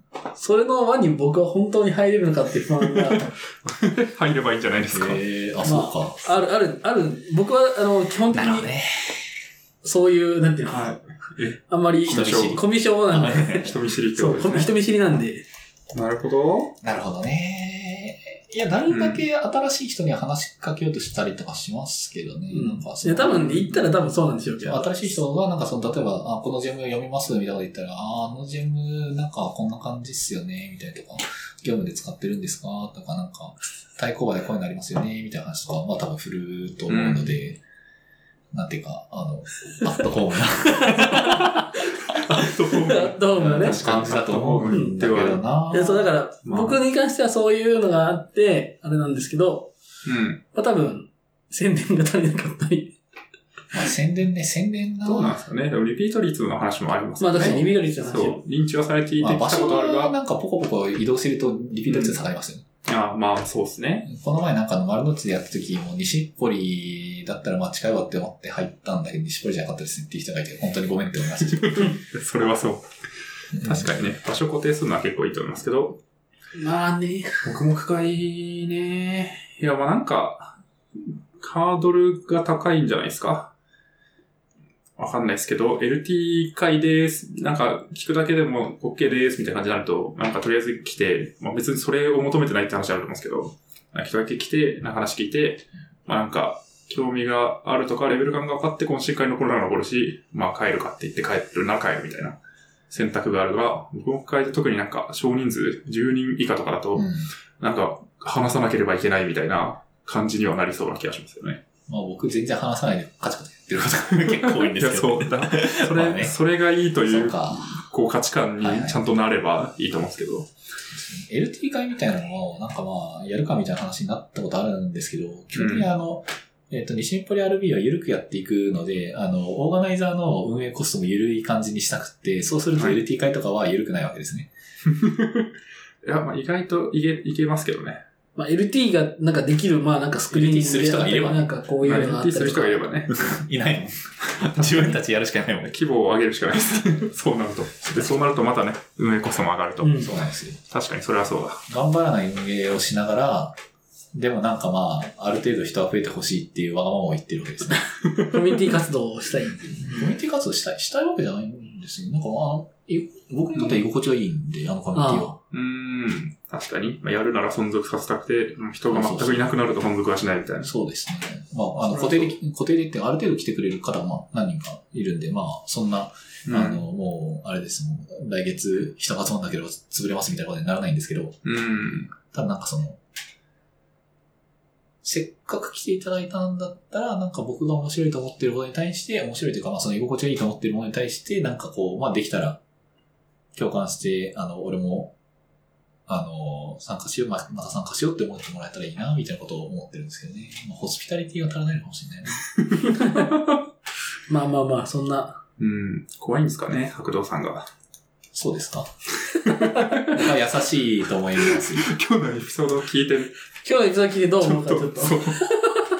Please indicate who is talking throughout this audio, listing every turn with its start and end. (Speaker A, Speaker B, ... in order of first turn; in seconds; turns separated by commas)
Speaker A: 0.3-3.3, Speaker B: 2.8-5.2, Speaker C: 4.9-6.4, Speaker A: 5.6-8.7, Speaker C: 8.3-9.3, Speaker A: 9.8-10.9, Speaker B: 10.7-12.6, Speaker A: 11.7-15.4, Speaker C: 12.1-13.8, Speaker B: 13.5-14.7, Speaker B: 15.9-16.8, Speaker C: 16.8-37.6, Speaker B: 18.9-19.2, Speaker A: 22.5-24.9, Speaker B: 36.9-37.4, Speaker C: 38.5-41.6, Speaker A: 40.7-41.8, Speaker B: 42.2-45.4, Speaker A: 42.3-43.8, Speaker C: 43.4-46.1, Speaker A: 44.7-45.0, Speaker A: 45.7-49.7, Speaker B: 46.5-46.8, Speaker B: 50.0-50.4, Speaker A: 50.5-53.0, Speaker C: 53.7-55.4, Speaker B: 55.0-60.1, Speaker A: 57.2-58.4, Speaker C: 57.4-57.7, Speaker C: 59.2-62.6, Speaker B: 61.9-62.2, Speaker B: 62.9-64.1, Speaker C: 64.0-72.0, Speaker B: 71.5-72.9, Speaker B: 73.5-76.0, Speaker C: 73.6-73.9, Speaker A: 76.6-77.4, Speaker B: 77.4-83.5, Speaker B: 85.0-102.4, Speaker B: 102.9-107.1, Speaker C: 107.0-107.3, Speaker B: 107.6-111.6, Speaker C: 111.9-116.4, Speaker B: 114.2-120.5, Speaker C: 117.1-117.8, Speaker C: 118.6-119.0, Speaker C: 120.9-134.5, Speaker B: 125.5-125.9, Speaker B: 134.9-135.5, Speaker B: 136.0-138.0, Speaker A: 138.4-142.9, Speaker C: 140.3-141.5, Speaker B: 141.8-143.3, Speaker C: 143.1-145.7, Speaker B: 144.3-145.0, Speaker B: 145.6-150.1, Speaker C: 146.7-147.1, Speaker C: 147.8-148.2, Speaker A: 149.8-150.1, Speaker C: 150.0-150.6, Speaker B: 150.7-151.6, Speaker C: 151.7-153.6, Speaker C: 154.1-157.9, Speaker A: 158.1-160.1, Speaker C: 159.7-165.4, Speaker A: 164.9-165.3, Speaker B: 165.5-170.7, Speaker C: 168.9-169.6, Speaker C: 170.6-181.4, Speaker A: 171.9-172.3, Speaker B: 176.5-176.8, Speaker B: 181.4-182.1, Speaker C: 182.2-183.0, Speaker C: 185.0-192.6, Speaker C: 193.6-195.1, Speaker C: 196.1-202.4, Speaker B: 202.5-203.6, Speaker A: 202.8-203.3, Speaker A: 204.3-205.4, Speaker B: 205.6-207.7, Speaker C: 208.3-208.9, Speaker B: 209.4-210.1, Speaker A: 209.5-209.8, Speaker C: 210.0-211.9, Speaker B: 211.5-213.3, Speaker A: 213.6-215.8, Speaker B: 214.4-215.4